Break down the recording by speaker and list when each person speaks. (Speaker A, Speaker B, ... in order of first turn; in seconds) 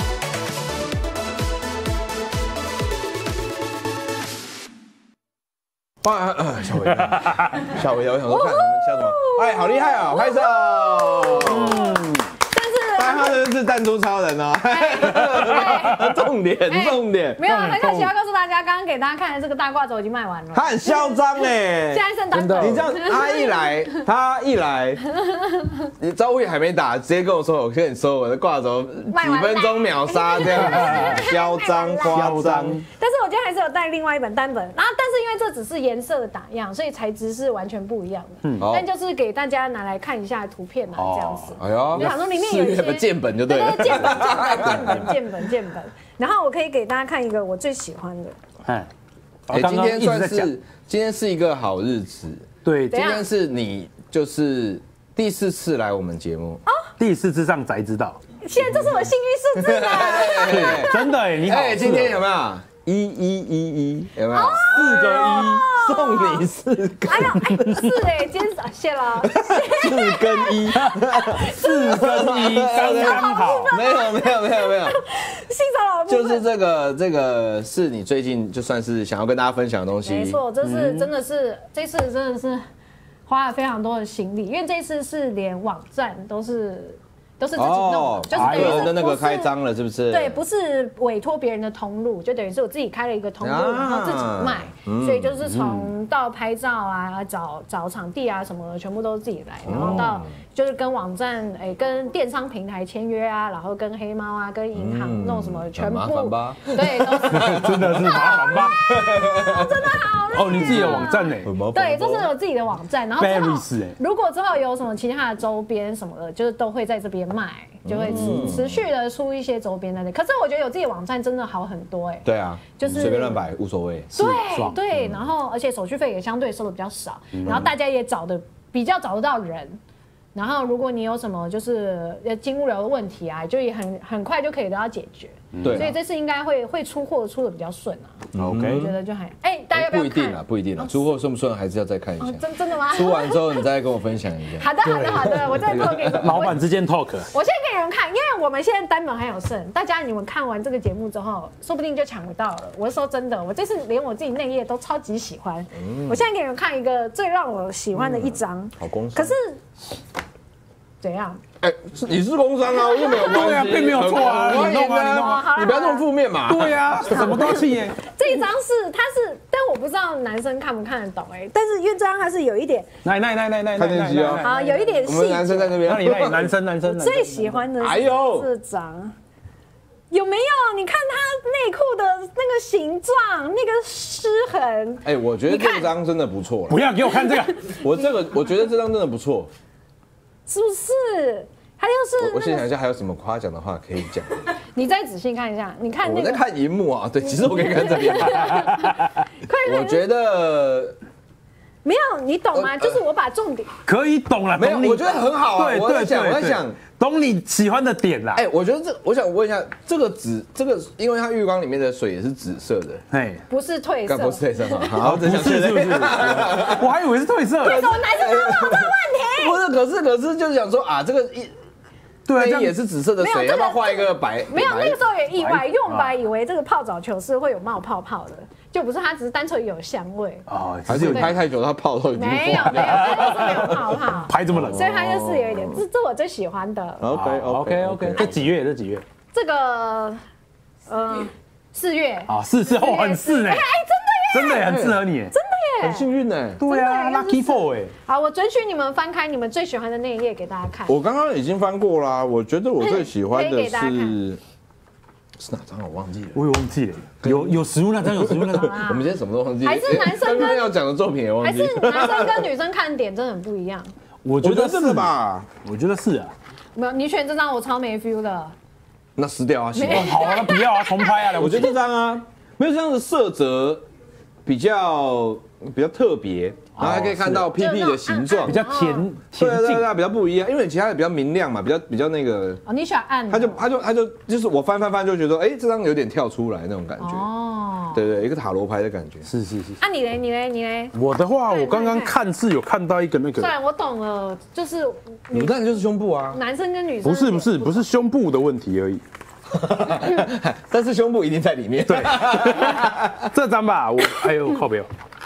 Speaker A: 6.0-11.8, 13.0-17.4, 20.5-22.1, 22.6-25.0, 26.0-32.8, 38.6-38.9, 41.6-45.2, 49.5-56.6, 58.5-68.0, 69.2-75.0, 76.1-80.4, 87.5-90.4, 93.4-95.7, 99.6-100.2, 104.7-110.0, 110.5-112.3, 117.8-118.8, 122.2-124.1, 124.9-125.3, 127.5-127.7, 135.6-135.9, 138.3-138.9, 139.7-146.5, 155.8-156.2, 157.9-159.3, 161.6-167.6, 173.8-174.4, 175.0-176.5, 177.8-178.5, 185.0-186.8, 187.7-189.5, 192.2-194.3, 196.0-198.7, 199.6-200.9, 202.5-203.0, 204.5-206.8, 208.3-213.0, 214.1-216.9, 217.6-221.5, 222.3-225.0, 230.8-234.0, 234.5-235.8, 237.0-238.4, 244.6-245.0, 245.8-246.6, 250.9-254.4, 255.4-256.4, 257.2-262.5, 264.4-265.5, 269.2-270.4, 271.3-273.8, 274.4-278.6, 279.4-282.6, 283.3-287.3, 287.9-289.3, 295.3-296.4, 299.5-303.3
Speaker B: 8.3-13.4, 14.7-16.1, 16.7-24.1, 25.2-25.9, 29.1-32.3, 32.9-48.4, 52.9-53.3, 56.7-56.9, 58.4-61.2, 64.3-66.4, 67.0-71.8, 72.8-76.5, 80.0-82.6, 83.2-89.5, 90.1-123.4, 124.1-129.8, 130.3-141.0, 142.2-143.7, 144.6-146.6, 147.3-159.6, 161.0-161.4, 162.7-166.1, 167.2-172.9, 174.4-175.8, 176.8-179.1, 180.1-185.9, 187.1-187.9, 190.5-192.7, 194.8-196.4, 197.2-200.0, 201.8-203.7, 213.5-214.9, 217.6-219.6, 223.2-231.3, 232.1-237.0, 239.3-240.2, 240.8-244.8, 245.3-246.1, 246.7-251.0, 252.8-254.2, 258.5-260.8, 261.4-263.9, 266.8-268.6, 269.7-271.4, 277.5-279.1, 282.7-283.6, 287.0-288.1, 289.8-292.2, 293.4-295.6, 296.3-297.9
Speaker C: 11.5-12.3, 17.4-18.1, 22.3-22.8, 30.6-31.2, 32.0-32.8, 41.0-41.5, 44.6-45.1, 49.5-50.5, 52.6-53.0, 57.0-58.2, 60.4-62.2, 71.4-73.7, 80.6-81.1, 88.3-89.0, 95.5-95.8, 107.3-108.8, 110.3-111.5, 113.2-114.0, 118.1-118.5, 122.9-123.2, 124.1-124.8, 127.3-127.7, 135.5-135.9, 138.3-138.8, 144.8-147.3, 163.0-165.5, 166.4-168.4, 173.0-175.1, 175.8-177.7, 186.7-187.7, 198.5-199.1, 203.8-208.4, 213.1-213.4, 215.0-217.8, 222.3-222.8, 225.3-226.1, 230.5-231.3, 232.6-233.7, 234.2-234.9, 237.1-239.0, 242.3-243.6, 244.3-245.3, 246.6-247.9, 256.3-258.8, 264.2-266.3, 269.9-271.8, 276.8-277.5, 278.5-279.9, 289.2-289.8, 290.9-293.5, 297.0-299.0, 301.9-304.9